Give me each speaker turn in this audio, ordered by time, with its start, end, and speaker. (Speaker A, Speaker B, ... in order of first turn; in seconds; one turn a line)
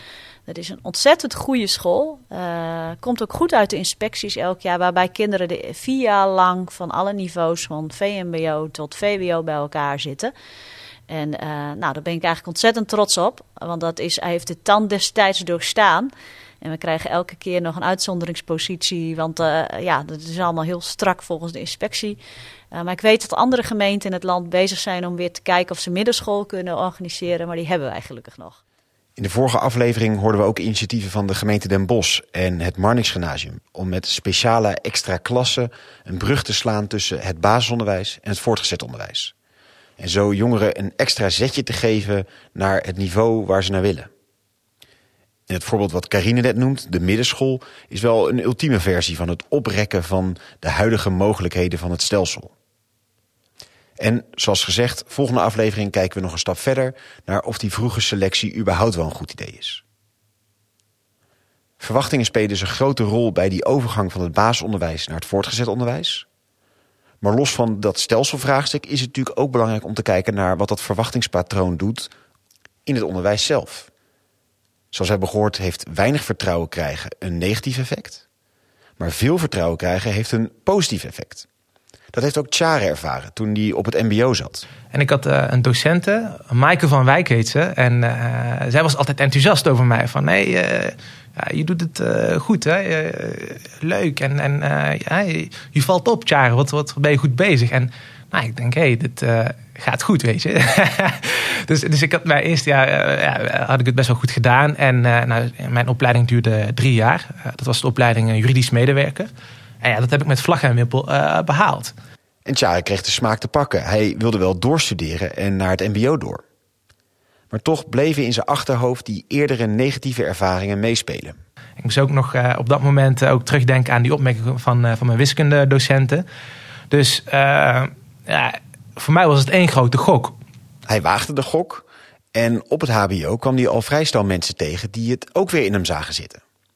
Speaker A: 0.5-10.3
Speaker A: 11.1-22.2
Speaker A: 22.7-28.6
Speaker B: 29.2-39.3
Speaker B: 40.0-44.1
Speaker B: 45.5-52.5
Speaker B: 54.0-59.8
Speaker B: 61.8-66.2
Speaker B: 67.2-72.1
Speaker B: 72.8-73.9
Speaker B: 74.9-78.2
Speaker B: 79.0-81.5
Speaker B: 82.1-84.7
Speaker C: 84.9-109.3
Speaker C: 109.8-111.9
Speaker B: 112.5-116.4
Speaker B: 117.5-121.4
Speaker C: 121.8-126.2
Speaker C: 126.9-130.4
Speaker B: 130.9-136.4